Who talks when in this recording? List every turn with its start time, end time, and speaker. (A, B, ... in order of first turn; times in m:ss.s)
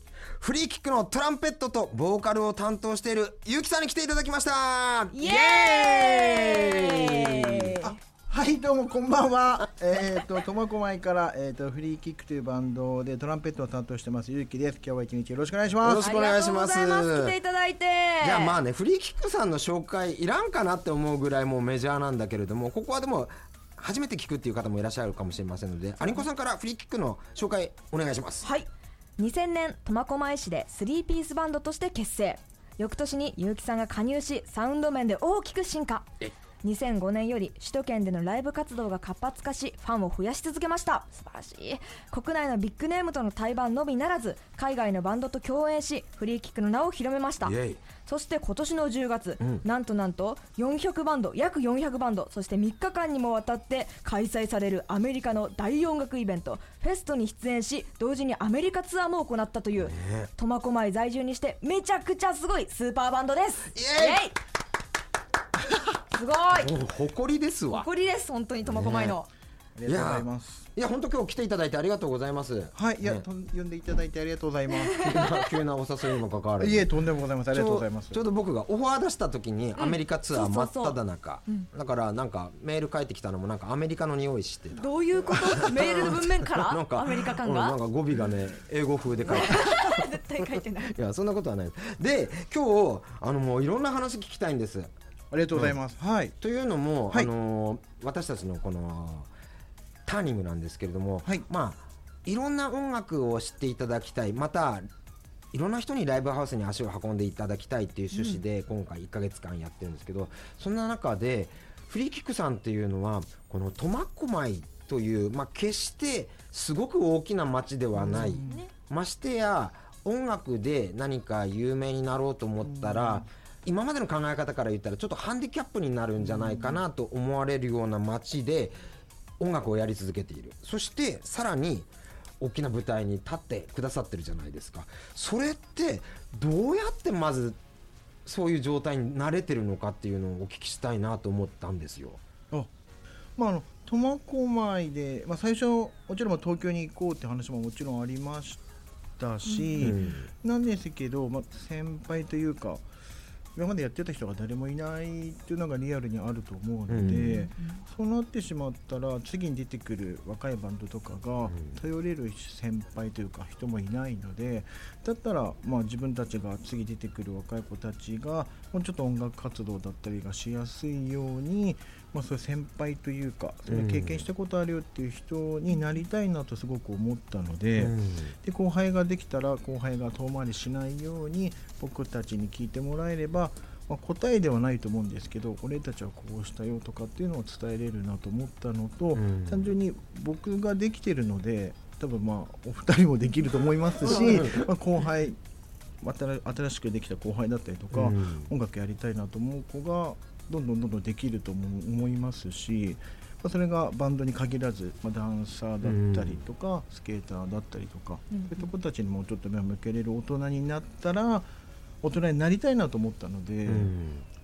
0:00.4-0:07.7 A
0:05.1-0:08.0 B
0:07.8-0:16.0 C
0:15.8-0:17.3 A
0:16.0-0:18.6 B
0:18.2-0:28.5 A
0:28.4-0:47.5 B
0:47.4-0:47.8 A
0:48.0-1:04.4 B
0:49.4-0:49.6 A
0:59.8-1:00.3 A
1:03.7-1:04.2 A
1:05.9-1:06.7 B
1:06.5-1:07.9 A
1:07.7-1:09.3 B
1:08.6-1:09.2 A
1:09.8-1:10.7 C
1:09.9-1:13.2 A
1:12.7-1:15.3 C
1:14.9-1:16.9 A
1:16.6-1:18.2 C
1:17.5-1:34.9 A
1:19.8-1:21.7 B
1:24.8-1:27.8 B
1:29.3-1:31.0 B
1:35.3-1:36.3 C
1:36.4-1:39.3 A
1:40.0-1:44.9 A
1:45.5-2:08.8 A
1:58.0-1:58.6 C
1:58.2-1:58.7 B
2:02.6-2:03.3 C
2:06.2-2:06.8 C
2:09.4-2:17.6 A
2:18.2-2:22.2 A
2:23.4-2:28.6 C
2:29.2-2:32.8 C
2:29.4-2:29.7 B
2:29.8-2:30.3 A
2:33.5-3:15.4 C
2:36.9-2:37.5 A
2:37.1-2:37.8 B
2:41.5-2:41.8 A
2:53.7-2:54.3 A
2:57.8-2:58.3 A
3:09.1-3:09.7 A
3:14.0-3:14.7 A
3:16.0-3:31.5 C
3:17.9-3:18.5 A
3:25.8-3:26.4 A
3:28.3-3:28.7 B
3:32.0-3:33.9 C
3:33.7-3:34.2 A